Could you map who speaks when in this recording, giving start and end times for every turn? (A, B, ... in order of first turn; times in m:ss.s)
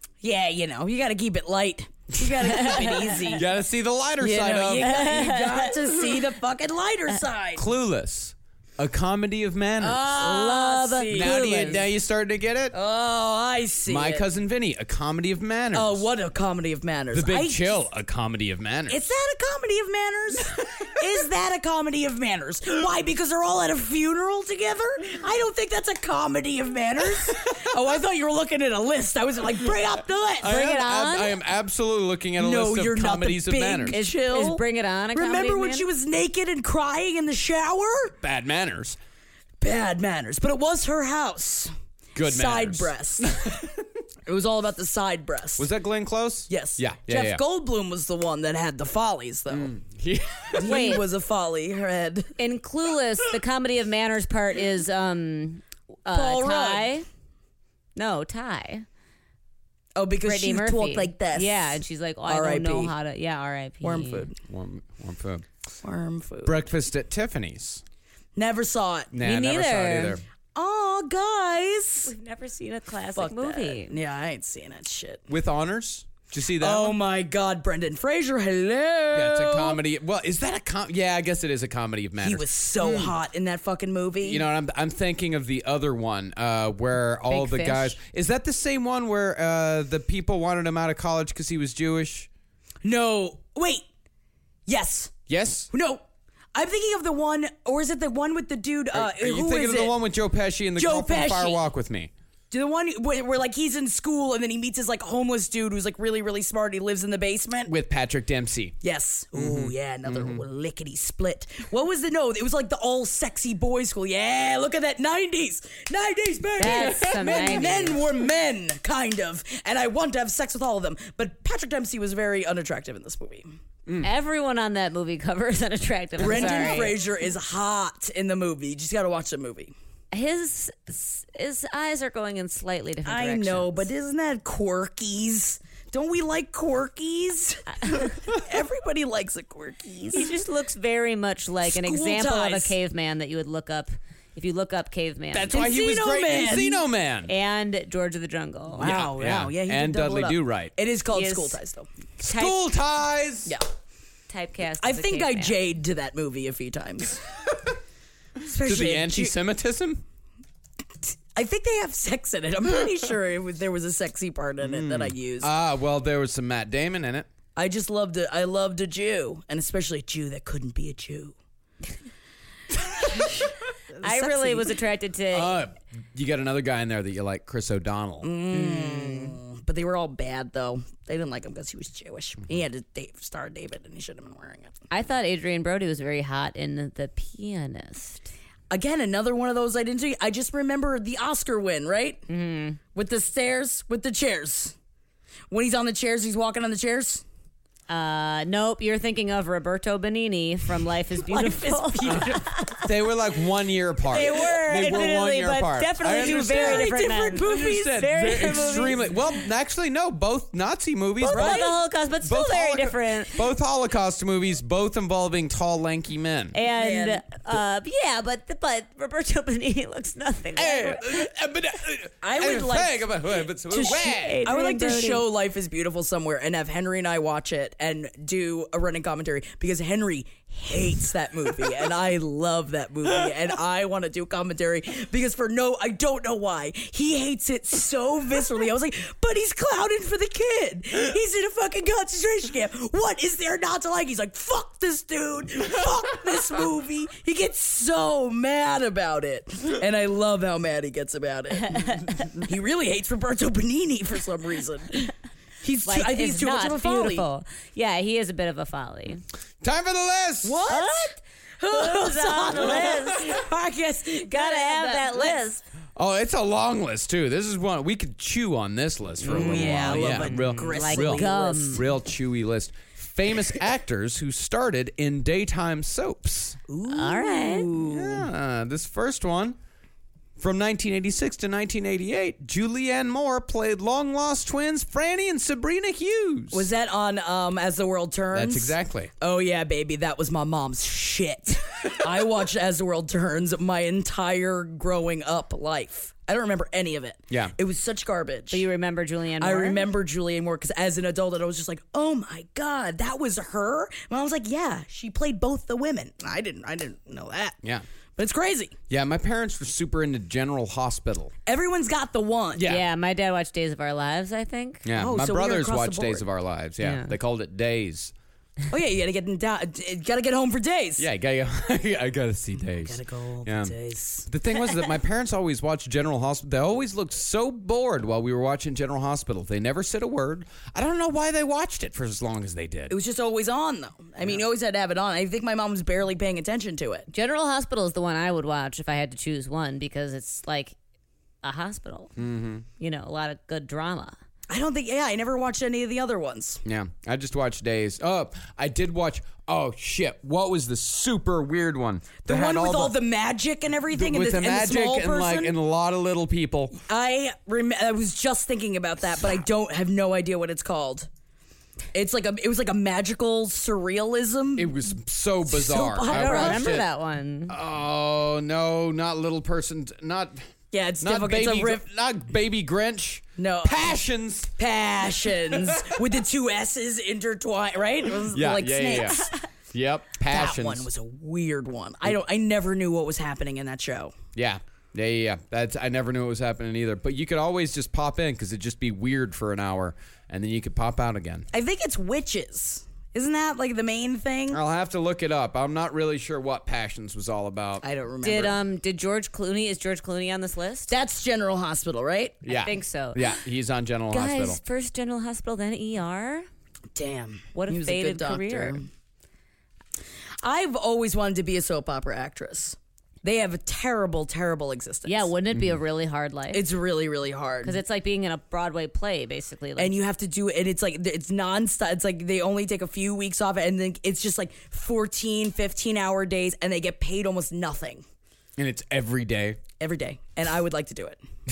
0:00.2-0:03.4 A
0:02.6-0:03.1 B
0:03.3-0:05.0 C
0:04.2-0:07.6 A
0:04.8-0:05.8 B
0:07.6-0:10.0 C
0:09.8-0:11.8 A
0:10.1-0:11.8 B
0:11.1-0:12.7 C
0:12.7-0:14.2 A
0:13.9-0:16.0 C
0:15.7-0:17.8 A
0:17.1-0:19.0 C
0:18.9-0:30.6 A
0:30.4-0:34.0 C
0:30.4-0:31.4 B
0:32.4-0:34.6 A
0:33.9-0:35.9 B
0:35.1-0:38.1 A
0:38.2-0:39.0 C
0:39.6-0:41.7 A
0:42.1-0:43.7 C
0:42.2-0:43.3 A
0:44.2-0:45.7 A
0:45.6-0:47.4 C
0:46.5-0:49.7 A
0:49.5-0:50.7 C
0:50.5-0:52.3 A
0:50.6-0:51.0 B
0:52.4-0:57.0 B
0:56.1-0:56.9 A
0:58.0-0:58.8 B
1:00.0-1:02.9 A
1:00.2-1:04.3 B
1:03.8-1:04.4 A
1:04.5-1:05.4 C
1:05.8-1:06.6 A
1:06.4-1:07.8 C
1:08.4-1:09.1 A
1:09.1-1:10.2 C
1:09.2-1:10.2 B
1:10.5-1:12.1 A
1:12.0-1:13.9 B
1:13.1-1:15.2 A
1:15.3-1:17.0 C
1:16.6-1:19.8 A
1:19.1-1:23.1 C
1:22.2-1:24.5 A
1:24.2-1:32.3 C
1:27.3-1:28.0 B
1:32.8-1:33.8 A
1:34.7-1:36.0 A
1:35.3-1:35.7 C
1:36.5-1:40.0 A
1:38.9-1:42.1 C
1:40.8-1:41.6 A
1:42.5-1:47.7 A
1:47.7-1:48.8 C
1:48.8-2:03.5 A
1:49.3-1:50.4 C
1:56.6-1:58.0 B
2:04.0-2:07.0 B
2:06.2-2:09.7 A
2:10.1-2:13.9 B
2:13.0-2:20.3 A
2:17.8-2:18.1 B
2:20.1-2:25.6 B
2:21.6-2:22.7 A
2:25.3-2:27.3 C
2:25.5-2:26.8 A
2:27.3-2:28.9 B
2:28.8-2:31.9 A
2:28.8-2:30.7 C
2:31.1-2:31.6 B
2:32.2-2:33.6 C
2:32.2-2:32.6 B
2:34.3-2:35.6 B
2:34.8-2:37.2 A
2:38.4-2:39.3 A
2:38.6-2:40.0 C
2:41.3-2:45.5 A
2:44.6-2:47.3 C
2:47.6-2:51.3 A
2:53.9-2:54.8 A
2:54.0-2:55.6 B
2:55.3-2:58.3 C
2:58.2-3:04.8 A
2:58.5-2:59.4 B
3:04.9-3:08.3 B
3:08.7-3:12.2 A
3:12.3-3:12.8 B
3:12.9-3:14.7 A
3:15.5-3:17.2 A
3:17.9-3:22.9 B
3:21.2-3:22.4 A
3:22.1-3:26.9 C
3:24.1-3:29.0 B
3:24.2-3:24.5 A
3:26.1-3:28.1 A
3:27.4-3:36.6 C
3:31.2-3:31.7 A
3:31.2-3:33.4 B
3:36.5-3:41.3 B
3:36.7-3:37.2 A
3:40.6-3:44.4 C
3:42.2-4:17.3 A
3:44.1-3:45.2 B
4:11.7-4:12.3 B
4:15.8-4:19.2 B
4:19.6-4:20.7 C
4:20.4-4:25.4 A
4:20.7-4:21.2 B
4:21.7-4:23.4 B
4:24.3-4:25.6 B
4:26.0-4:36.6 C
4:29.2-4:31.8 B
4:29.3-4:31.8 A
4:36.7-4:38.3 A
4:36.9-4:37.7 B
4:37.8-4:39.6 C
4:40.4-4:46.7 C
4:46.5-4:58.7 A
4:48.3-4:49.1 C
4:58.5-4:59.9 B
4:59.4-5:07.6 A
5:08.2-5:08.7 A
5:08.9-5:11.3 C
5:11.4-5:12.6 A
5:12.6-5:12.8 C
5:12.6-5:14.8 B
5:14.8-5:18.1 C
5:14.9-5:16.2 A
5:16.8-5:17.1 B
5:18.7-5:21.0 A
5:21.0-5:23.7 C
5:22.8-5:24.3 A
5:24.2-5:33.0 C
5:32.9-5:37.1 A
5:37.1-5:40.7 B
5:41.4-5:42.1 B
5:42.2-5:42.6 C
5:42.8-5:44.2 B
5:44.5-5:46.6 A
5:46.6-5:53.0 C
5:52.2-5:55.5 A
5:53.9-5:56.8 C
5:56.9-6:01.1 A
6:01.9-6:04.8 A
6:04.6-6:06.8 C
6:05.5-6:06.7 A
6:06.1-6:07.6 B
6:07.5-6:10.5 C
6:10.7-6:11.8 A
6:11.0-6:14.5 C
6:13.4-6:14.0 A
6:14.6-6:19.3 A
6:15.5-6:16.0 C
6:18.3-6:20.9 C
6:20.2-6:24.1 A
6:24.3-6:31.5 C
6:31.5-6:34.6 A
6:34.5-6:37.8 C
6:37.8-6:38.6 A
6:38.2-6:40.9 B
6:40.9-6:42.4 A
6:42.4-6:44.6 C
6:42.5-6:43.2 B
6:44.1-6:46.5 B
6:46.9-6:48.8 A
6:47.5-6:48.8 B
6:50.4-6:55.3 A
6:55.0-6:56.6 B
6:56.5-6:57.8 A
6:57.6-6:59.9 B
6:59.8-7:08.0 A
7:08.6-7:09.6 C
7:09.8-7:11.2 A